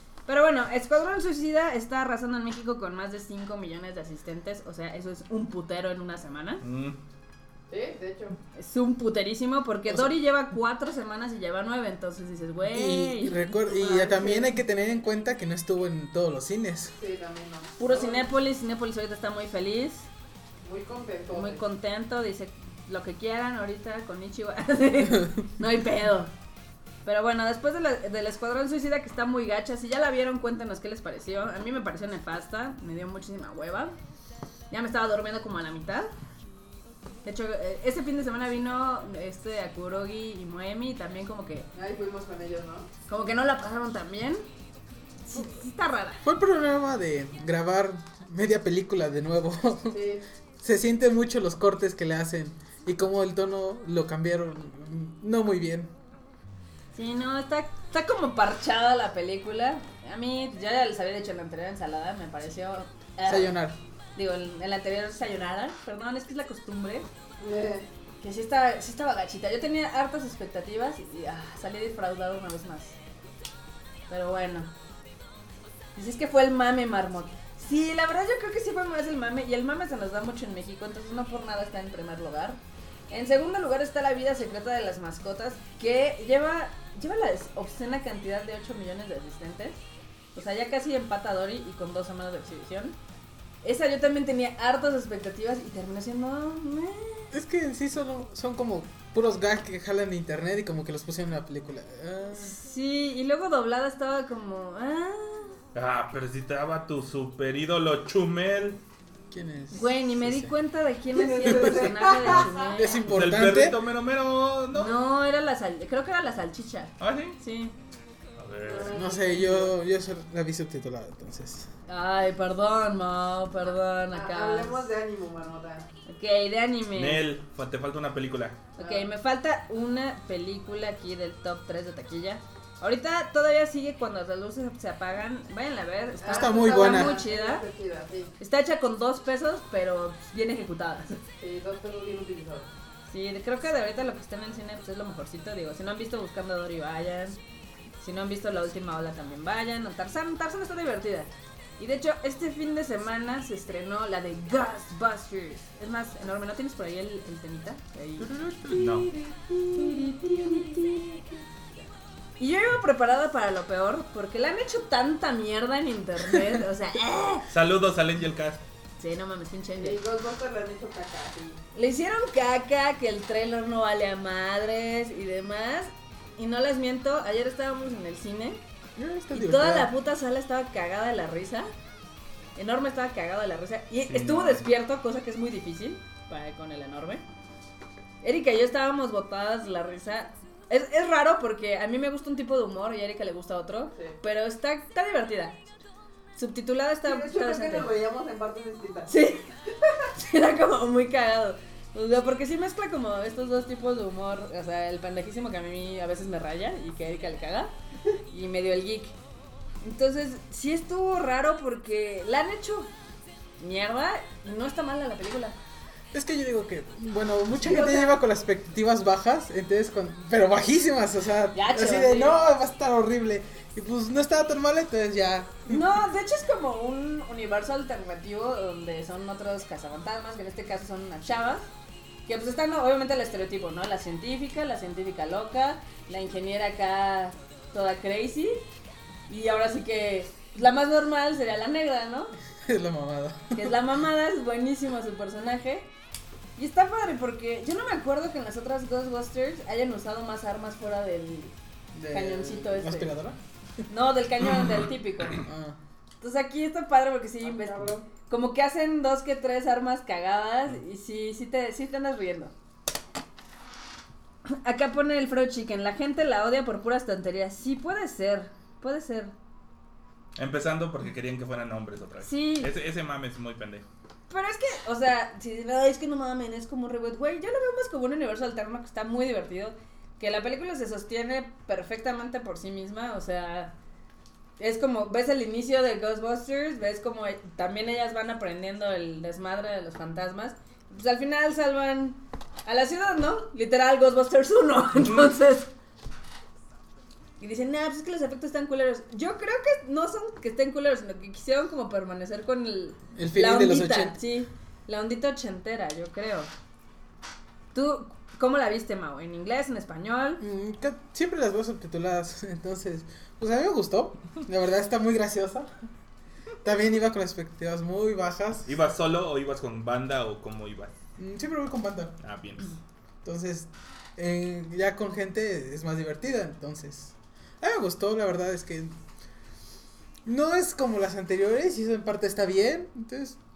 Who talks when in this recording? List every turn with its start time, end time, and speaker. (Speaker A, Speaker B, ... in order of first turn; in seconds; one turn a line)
Speaker A: 0.2-6.6
Speaker B: 6.6-7.0
Speaker C: 7.7-8.4
Speaker A: 8.5-14.5
Speaker D: 9.9-10.1
Speaker D: 12.7-16.9
Speaker C: 17.0-18.3
Speaker A: 17.8-20.1
Speaker C: 20.6-21.6
Speaker A: 21.3-26.3
Speaker A: 27.0-33.9
Speaker A: 34.7-36.1
Speaker A: 37.2-41.7
Speaker C: 41.7-42.9
Speaker A: 43.1-44.4
Speaker A: 45.2-46.2
Speaker D: 46.2-50.0
Speaker C: 49.9-50.2
Speaker D: 50.6-55.9
Speaker A: 56.9-63.6
Speaker D: 63.2-63.8
Speaker A: 64.2-67.0
Speaker C: 67.4-67.9
Speaker A: 68.2-73.0
Speaker A: 74.1-74.7
Speaker A: 75.9-82.6
Speaker A: 83.1-89.8
Speaker A: 90.3-93.0
Speaker A: 93.6-97.3
Speaker D: 97.3-102.6
Speaker A: 102.3-105.5
Speaker B: 105.7-108.8
Speaker D: 109.3-110.5
Speaker A: 109.7-113.2
Speaker C: 111.1-112.8
Speaker D: 111.4-113.8
Speaker B: 113.1-115.0
Speaker A: 114.7-117.8
Speaker B: 117.0-117.4
Speaker B: 118.3-119.0
Speaker C: 118.6-119.7
Speaker D: 118.9-121.7
Speaker A: 121.9-124.9
Speaker C: 124.1-125.9
Speaker A: 126.0-127.2
Speaker B: 126.9-128.6
Speaker C: 128.8-129.1
Speaker A: 128.8-137.6
Speaker C: 136.2-138.3
Speaker D: 136.3-137.1
Speaker A: 138.4-141.2
Speaker C: 141.4-142.7
Speaker A: 143.1-147.4
Speaker A: 148.0-161.3
Speaker B: 158.7-159.1
Speaker C: 159.9-160.7
Speaker A: 162.4-167.5
Speaker B: 167.5-168.6
Speaker A: 169.0-170.0
Speaker C: 169.8-171.6
Speaker A: 171.7-178.6
Speaker D: 179.0-179.9
Speaker A: 179.3-181.7
Speaker A: 182.6-187.2
Speaker B: 184.1-184.7
Speaker A: 188.2-195.6
Speaker A: 196.3-197.9
Speaker C: 197.0-199.1
Speaker A: 199.1-207.7
Speaker A: 208.3-209.1
Speaker A: 209.8-212.9
Speaker A: 213.6-215.6
Speaker D: 216.1-225.9
Speaker A: 217.6-218.2
Speaker A: 221.5-222.4
Speaker A: 225.7-231.7
Speaker A: 232.2-238.6
Speaker A: 239.3-242.3
Speaker D: 242.6-243.8
Speaker A: 243.5-245.9
Speaker A: 246.6-251.5
Speaker D: 251.9-253.4
Speaker A: 252.1-253.2
Speaker A: 253.9-255.4
Speaker D: 255.4-255.8
Speaker A: 256.2-262.5
Speaker C: 257.4-258.1
Speaker A: 264.4-269.3
Speaker B: 270.4-273.8
Speaker A: 272.2-272.7
Speaker A: 274.3-283.7
Speaker A: 284.6-295.7
Speaker A: 297.4-306.5
Speaker D: 303.1-304.2
Speaker A: 307.7-310.4
Speaker D: 310.4-315.7
Speaker D: 316.6-318.7
Speaker B: 318.7-320.9
Speaker D: 321.2-322.1
Speaker B: 322.2-322.7
Speaker D: 323.2-328.9
Speaker D: 330.2-333.4